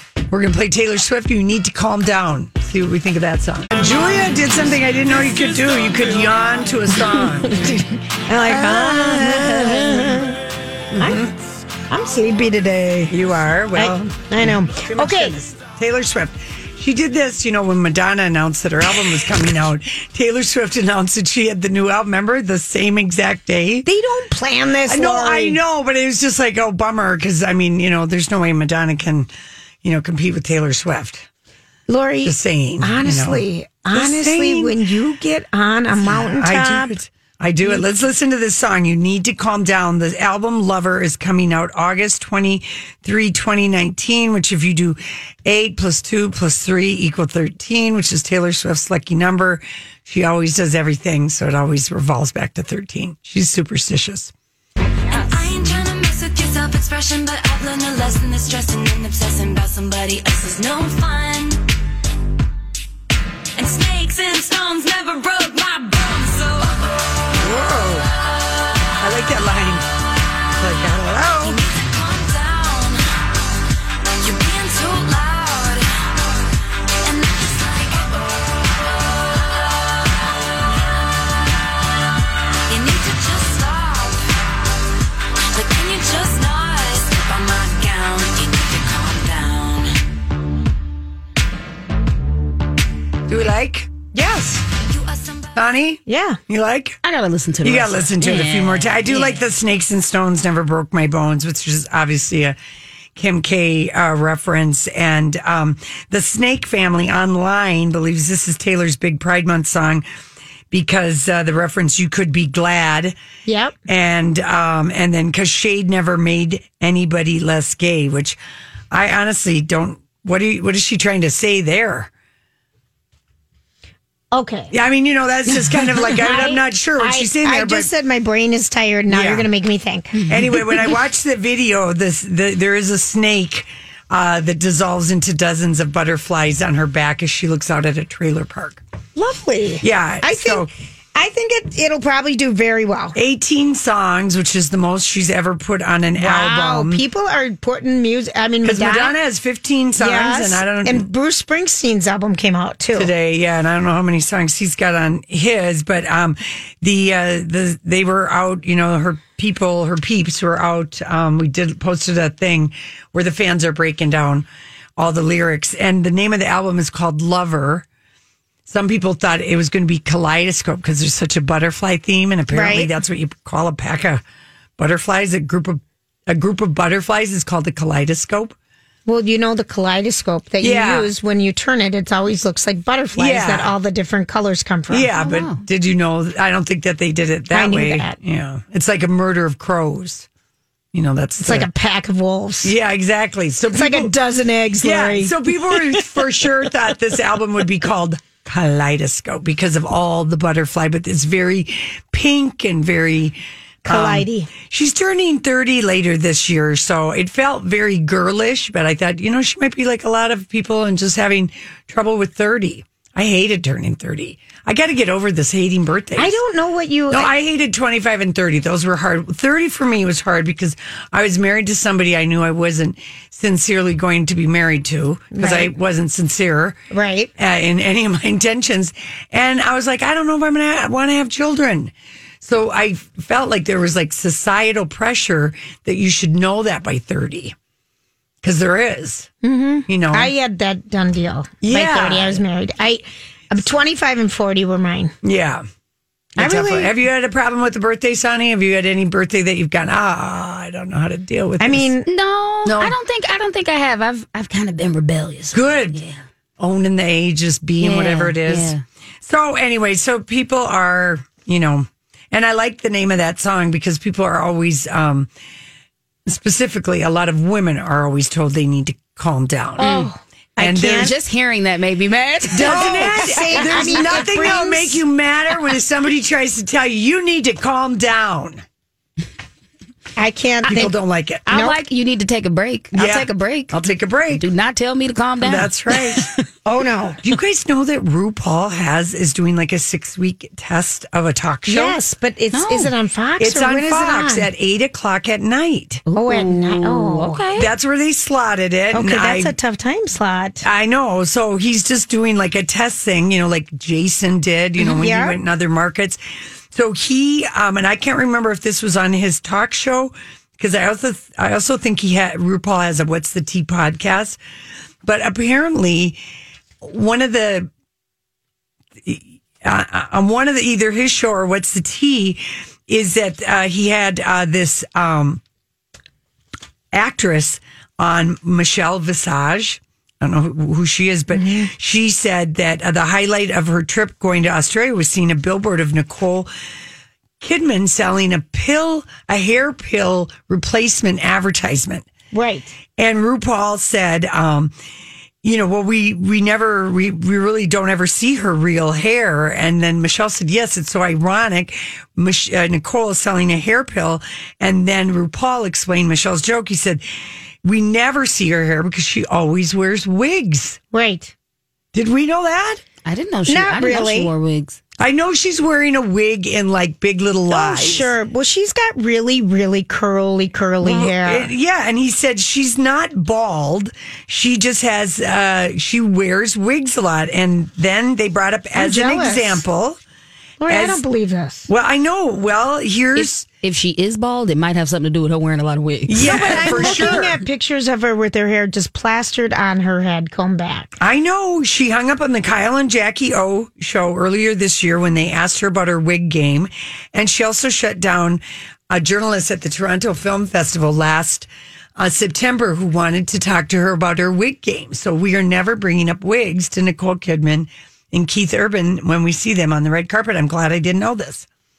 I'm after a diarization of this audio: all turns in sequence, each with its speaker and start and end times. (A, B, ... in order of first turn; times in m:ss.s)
0:00.3-0:07.7 A
0:07.4-0:10.4 B
0:08.3-0:10.3 A
0:11.0-0:11.3 A
0:11.0-0:11.3 B
0:11.9-0:13.2 B
0:13.1-0:23.9 A
0:13.8-0:15.4 B
0:23.8-0:25.6 B
0:24.9-0:29.3 A
0:29.8-0:31.3 A
0:31.9-0:37.0 B
0:32.2-0:34.8 A
0:36.0-0:54.3 A
0:55.1-1:01.6 C
1:03.6-1:06.9 C
1:07.3-1:08.1 A
1:09.0-1:09.9 A
1:10.6-1:11.6 A
1:11.4-1:13.0 C
1:14.2-1:16.2 C
1:17.0-1:18.5 C
1:19.0-1:20.8 C
1:22.7-1:24.3 C
1:25.5-1:29.9 C
1:33.3-1:33.9 A
1:34.2-1:34.6 B
1:34.7-1:35.6 C
1:35.6-1:37.0 A
1:36.1-1:36.4 B
1:37.0-1:39.5 D
1:37.6-1:42.6 A
1:43.2-1:50.0 A
1:50.7-1:53.2 A
1:53.5-1:53.8 B
1:53.9-1:58.4 A
1:58.9-2:02.1 A
2:04.3-2:04.7 B
2:04.7-2:07.9 A
2:06.1-2:10.2 B
2:09.1-2:09.5 A
2:10.3-2:18.8 A
2:19.2-2:23.2 B
2:19.8-2:20.7 A
2:23.2-2:27.0 A
2:26.2-2:29.2 B
2:28.6-2:31.1 A
2:30.0-2:33.1 B
2:32.9-2:47.9 A
2:48.7-2:54.2 A
2:52.5-2:52.9 B
2:54.8-2:58.6 A
2:59.1-3:05.1 B
3:00.6-3:01.1 A
3:03.2-3:03.8 A
3:04.9-3:10.3 A
3:05.2-3:05.6 D
3:07.5-3:08.2 B
3:10.9-3:11.7 A
3:11.4-3:12.8 B
3:12.6-3:14.1 A
3:13.7-3:15.3 B
3:14.8-3:36.4 A
3:23.9-3:24.5 B
3:36.2-3:37.3 B
3:37.1-3:46.8 A
3:45.4-3:45.7 B
3:46.9-3:47.3 B
3:47.4-3:57.6 A
3:58.4-3:59.3 A
3:59.4-4:05.1 B
3:59.9-4:00.3 A
4:01.6-4:02.4 A
4:05.2-4:05.6 A
4:06.4-4:11.9 A
4:06.4-4:07.0 B
4:11.6-4:12.1 B
4:12.1-4:16.2 D
4:12.6-4:13.0 A
4:15.5-4:16.0 A
4:16.6-4:25.3 A
4:17.8-4:18.8 D
4:26.3-4:29.9 A
4:29.8-4:31.1 B
4:29.8-4:30.1 D
4:30.6-4:31.1 A
4:30.8-4:34.1 D
4:32.5-4:38.6 A
4:32.6-4:35.0 B
4:40.2-4:41.8 B
4:40.7-4:41.5 A
4:41.5-4:43.8 D
4:43.0-4:44.4 A
4:44.3-4:46.4 D
4:45.4-4:46.3 A
4:46.6-4:47.2 B
4:47.2-4:52.0 A
4:51.7-4:54.5 B
4:52.5-4:52.9 D
4:53.4-4:56.0 A
4:56.1-4:57.5 B
4:56.1-4:57.7 D
4:57.6-4:59.6 A
4:58.9-5:00.6 B
5:00.6-5:06.2 A
5:04.8-5:05.4 B
5:06.7-5:14.4 A
5:15.0-5:16.2 A
5:16.8-5:17.7 A
5:19.0-5:25.4 A
5:26.9-5:36.5 A
5:31.3-5:31.7 B
5:37.4-5:42.1 A
5:42.3-5:42.8 B
5:43.0-5:44.7 A
5:45.4-5:57.0 A
5:57.6-6:00.8 A
6:00.9-6:01.3 B
6:01.9-6:02.8 A
6:03.0-6:04.8 D
6:03.5-6:04.3 B
6:05.0-6:08.1 A
6:07.5-6:11.5 B
6:10.8-6:20.0 A
6:18.8-6:19.6 B
6:20.6-6:21.7 B
6:20.7-6:21.0 A
6:21.7-6:23.4 A
6:23.2-6:27.2 D
6:26.1-6:27.4 A
6:26.2-6:30.9 B
6:31.0-6:51.5 A